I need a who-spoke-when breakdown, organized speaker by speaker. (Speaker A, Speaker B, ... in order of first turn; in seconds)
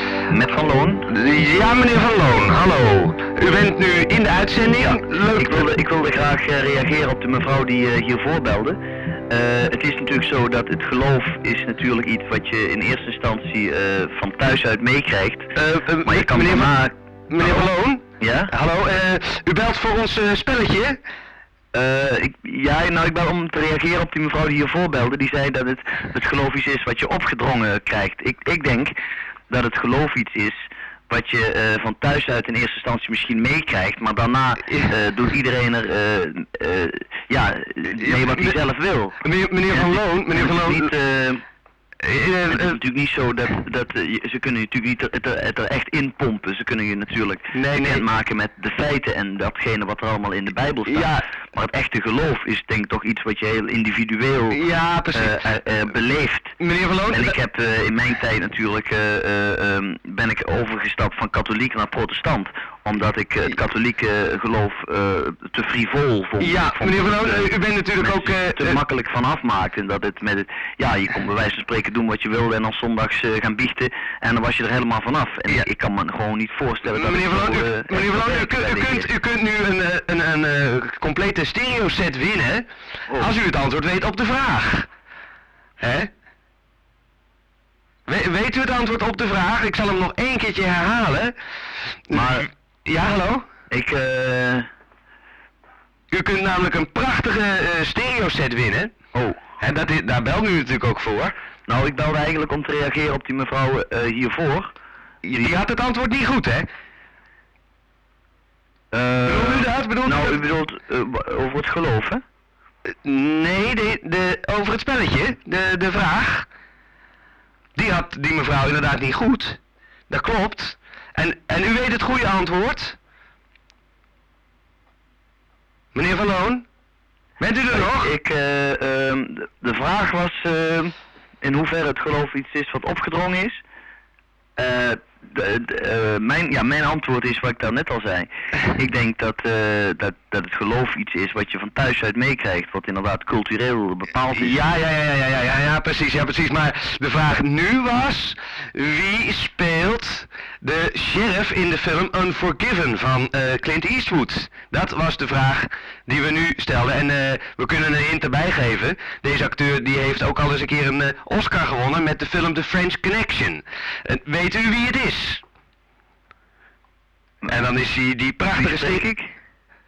Speaker A: 0.3-1.1, 4.8-8.8, 9.3-15.5, 16.0-18.5, 21.7-29.0, 29.5-30.6, 31.1-39.2, 39.7-41.4, 42.5-54.6, 55.1-56.5, 57.1-79.1, 92.1-92.5, 93.7-94.7, 99.1-99.4, 101.7-104.7, 108.9-112.2, 127.7-133.6, 134.6-144.6, 168.5-169.3
Speaker B: 1.1-5.7, 15.6-16.7, 17.3-21.0, 38.0-38.6, 39.2-40.9, 42.0-42.8, 47.5-48.0, 50.9-51.2, 54.5-55.4, 56.6-57.4, 66.4-68.8, 76.8-84.9, 85.8-86.1, 88.1-91.3, 92.1-93.5, 96.1-98.9, 99.6-101.3, 105.2-106.7, 109.3-110.4, 113.0-116.5, 117.8-123.0, 126.0-126.7, 127.4-128.1, 144.3-165.4, 167.4-169.1